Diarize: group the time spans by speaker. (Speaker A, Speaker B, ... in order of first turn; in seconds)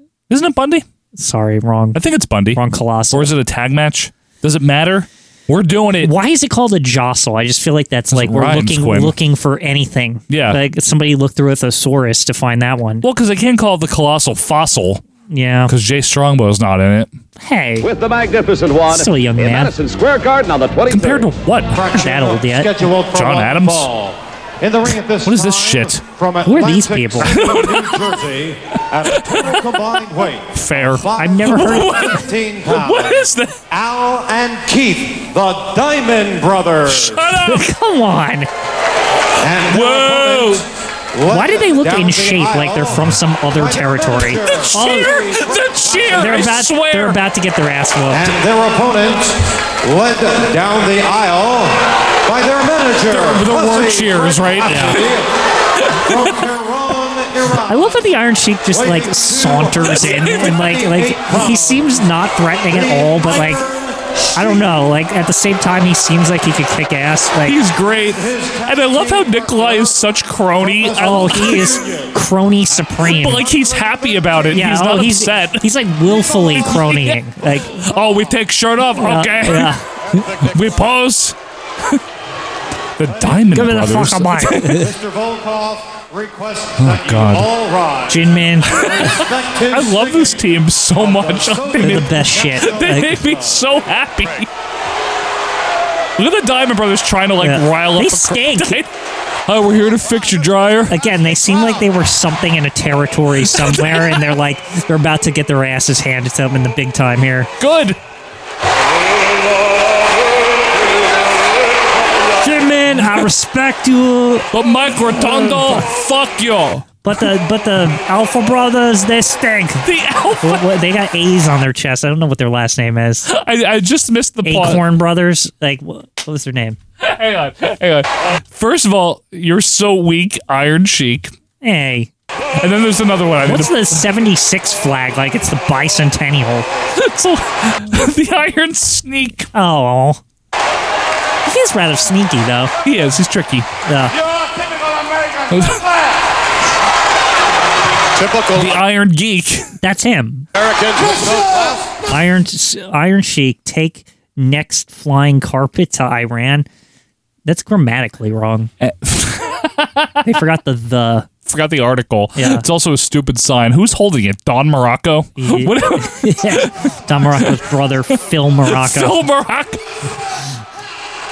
Speaker A: 0.3-0.8, 1.9-2.6, 3.1-6.1, 8.1-9.1, 10.3-10.6, 13.0-15.0, 15.7-17.1, 20.9-21.8, 23.1-23.9, 25.2-26.0, 27.2-28.2, 29.0-29.8, 30.5-33.6, 36.9-37.7, 39.6-40.6, 44.6-47.2, 53.1-55.1, 55.8-56.4, 67.4-71.8, 73.0-75.7, 76.5-77.2, 77.7-81.3, 83.0-84.9, 86.8-87.5, 88.7-94.5, 96.2-98.9, 99.5-100.9, 103.4-104.2, 107.6-108.0, 114.5-117.2, 119.8-120.7, 123.2-124.8, 127.0-131.3, 132.6-134.0, 136.9-139.5, 142.8-143.7, 145.5-145.8, 148.5-149.7, 158.8-160.2, 161.4-167.6, 168.7-169.8
Speaker B: 1.1-2.0, 2.5-3.3, 6.0-13.1, 15.3-15.7, 17.4-17.9, 18.9-19.7, 21.9-22.8, 26.4-27.4, 31.1-32.1, 37.4-38.5, 41.3-45.2, 46.1-48.4, 54.6-55.0, 57.7-63.6, 64.3-67.6, 71.0-73.5, 74.5-77.8, 79.0-79.8, 83.5-84.8, 88.1-88.8, 91.8-93.2, 97.4-98.8, 100.9-107.5, 112.4-114.5, 115.2-115.9, 117.0-119.9, 120.4-123.3, 124.4-126.8, 131.6-132.1, 133.4-136.7, 139.5-140.2, 141.4-142.7, 143.8-144.1, 149.8-150.5, 152.1-156.7, 157.4-158.7, 160.2-161.3, 162.3-162.6, 165.4-169.2
Speaker C: 17.8-21.3
Speaker D: 21.7-37.3, 39.4-46.5, 48.1-55.3, 55.9-58.2, 58.7-62.1, 62.7-64.8, 67.9-70.0, 70.6-72.2, 73.3-74.7, 76.1-77.0, 83.1-83.4, 84.7-93.8
Speaker E: 80.1-81.0, 148.1-148.8, 150.5-151.9